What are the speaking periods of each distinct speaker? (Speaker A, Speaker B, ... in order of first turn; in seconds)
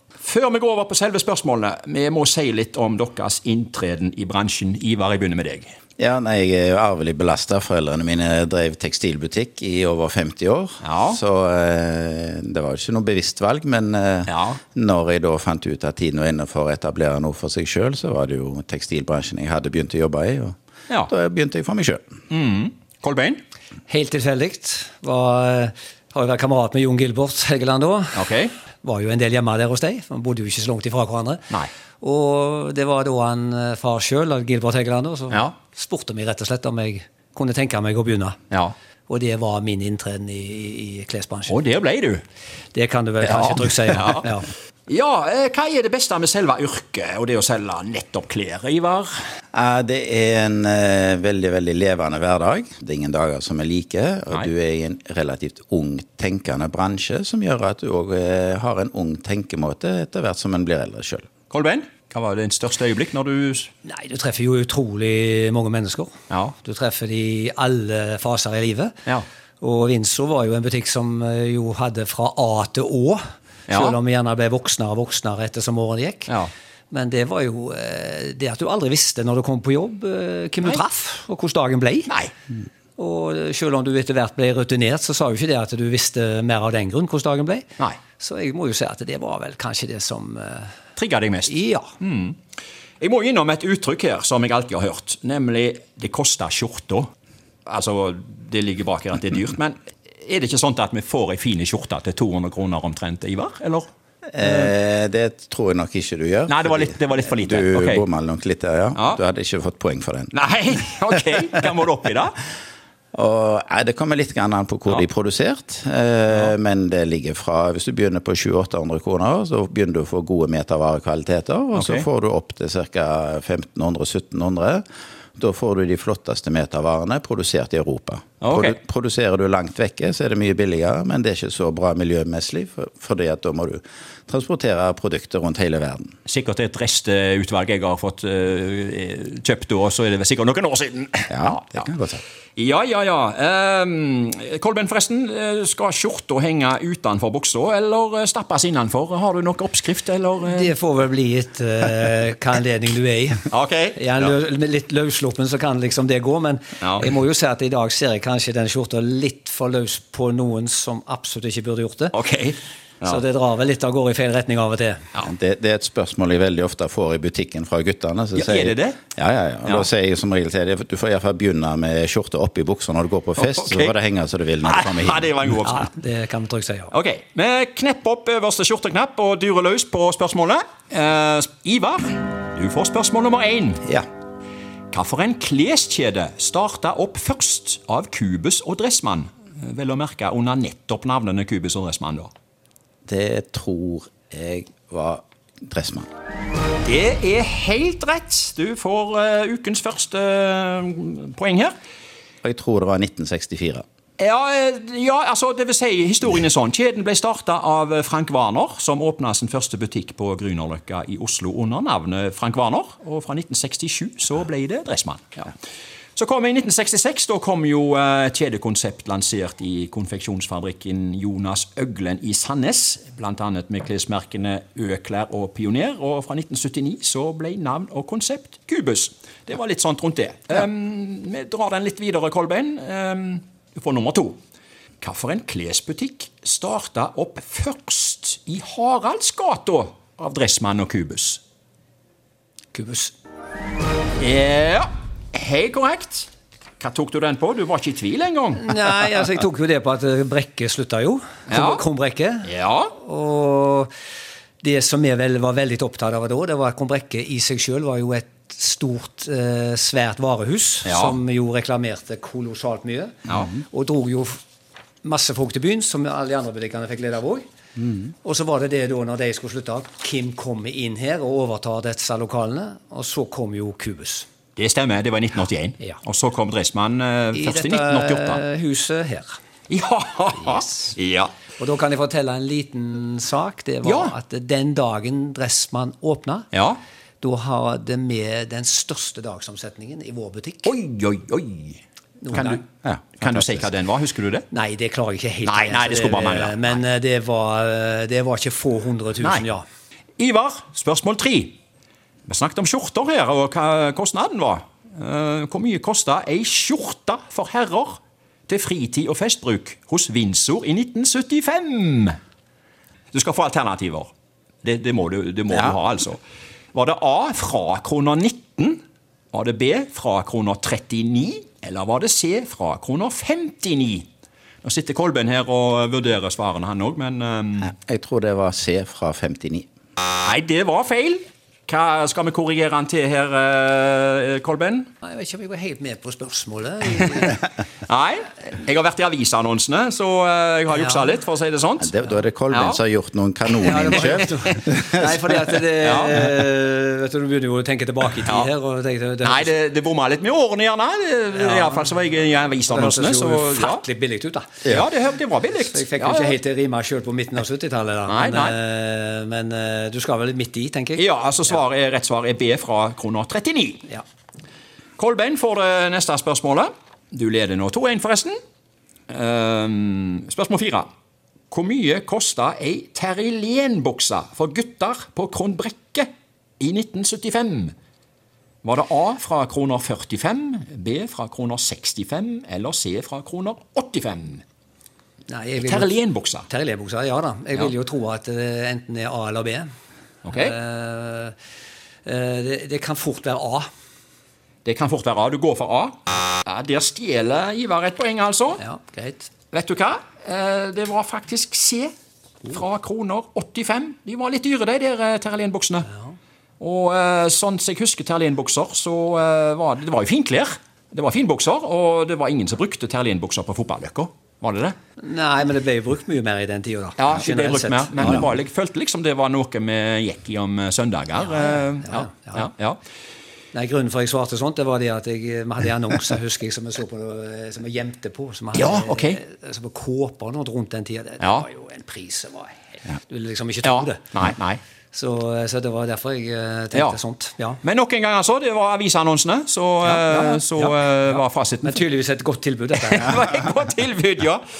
Speaker A: 0.2-5.7, 10.8-11.2, 14.3-14.6, 22.3-23.4, 28.1-28.5, 41.5-42.2, 43.2-44.2, 44.9-49.1, 61.5-63.7, 66.3-66.5, 73.7-73.9, 91.0-92.4, 93.0-97.1, 97.7-103.9, 104.4-104.7, 106.5-108.0, 110.3-112.4, 121.7-122.1, 128.4-128.8, 136.2-141.8, 142.6-150.7, 153.5-154.3, 156.8-157.1, 162.1-163.2, 168.3-169.0, 173.4-173.9, 174.6-175.9, 176.9-183.9, 184.9-192.3, 196.8-201.7, 204.2-215.5, 216.2-234.4, 235.0-241.4, 244.2-246.3, 246.8-248.8, 251.5-251.8, 252.4-252.9, 260.8-261.2, 263.3-263.5, 274.6-278.4, 279.7-281.3, 283.8-284.1, 286.5-286.8, 290.6-291.8, 292.3-292.6, 293.2-294.4, 295.4-296.8, 300.2-301.6, 302.3-312.2, 313.1-314.1, 314.6-316.2, 316.7-318.8, 319.3-324.1, 324.6-327.7, 330.2-334.9, 337.9-341.9, 342.5-342.8, 343.6-344.6, 345.8-346.3, 349.2-353.8, 354.6-356.4, 358.1-358.5, 360.9-363.9, 365.0-368.4, 369.1-370.9, 371.5-377.7, 378.6-384.4, 385.6-386.5, 390.2-390.6, 394.6-398.6, 399.5-401.9, 402.5-405.9, 406.6-414.8, 417.0-422.8, 428.5-429.2, 431.2-431.4, 433.6-434.6, 437.6-441.8, 442.7-444.4
Speaker B: 6.0-20.5, 21.1-22.0, 49.5-61.3, 104.3-110.3, 113.1-124.8, 125.4-136.1, 141.3-142.2, 165.2-175.3, 193.1-196.1, 202.4-203.8, 292.8-293.6, 327.7-329.6, 341.8-344.9
Speaker C: 23.9-28.3, 28.8-31.5, 32.0-38.4, 39.1-41.6, 42.7-44.5, 63.8-68.9, 69.6-76.3, 76.9-82.1, 83.0-90.7, 91.5-91.9, 150.4-162.1, 163.0-165.0, 175.7-176.9, 242.7-243.1, 248.6-253.9, 254.6-264.4, 265.0-267.4, 268.2-274.3, 277.3-279.4, 281.6-286.4, 287.2-290.7, 292.2-292.6, 294.5-299.6, 335.0-337.5, 343.6-349.5, 351.3-354.6, 355.6-361.0, 385.3-385.9, 386.5-389.7, 390.3-391.3, 392.1-393.7, 398.6-399.3, 415.0-418.2, 421.8-422.4, 423.5-434.1, 434.9-437.6, 439.9-440.7, 441.6-443.3